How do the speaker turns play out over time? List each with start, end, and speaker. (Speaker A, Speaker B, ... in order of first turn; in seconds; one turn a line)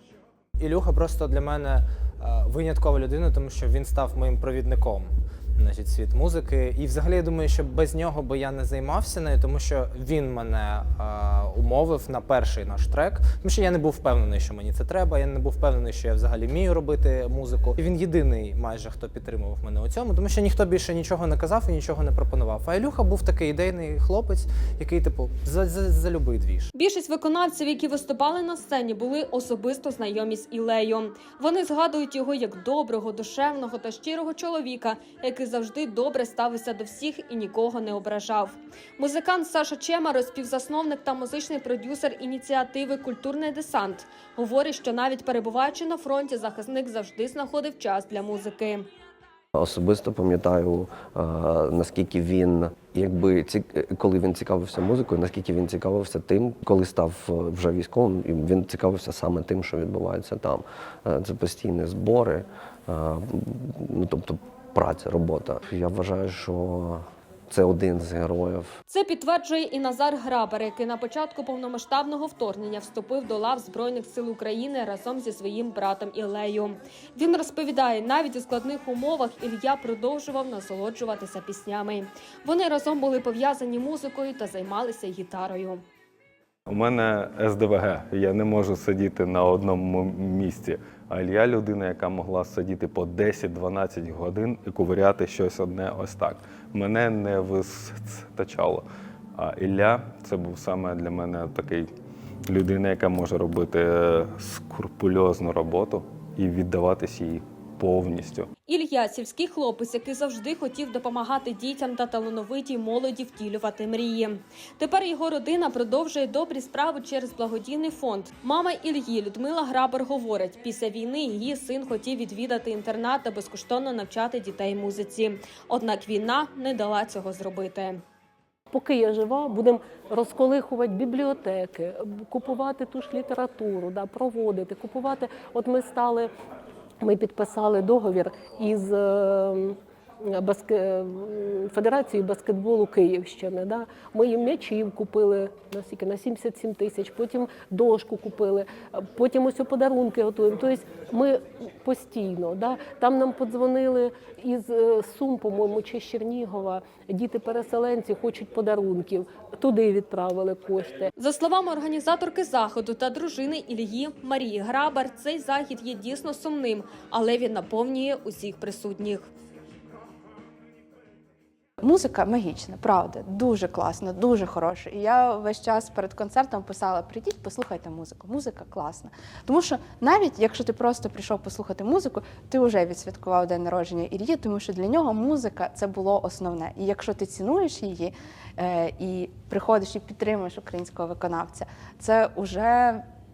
Speaker A: 0.6-26.7
Speaker B: 26.7-48.9
Speaker C: 49.5-68.7
Speaker B: 68.9-85.8
Speaker D: 86.7-98.8
Speaker D: 99.4-101.9
Speaker D: 102.5-108.5
Speaker B: 108.7-128.0
Speaker E: 128.7-136.3
Speaker E: 137.0-161.1
Speaker B: 161.2-169.3
Speaker F: 171.8-193.0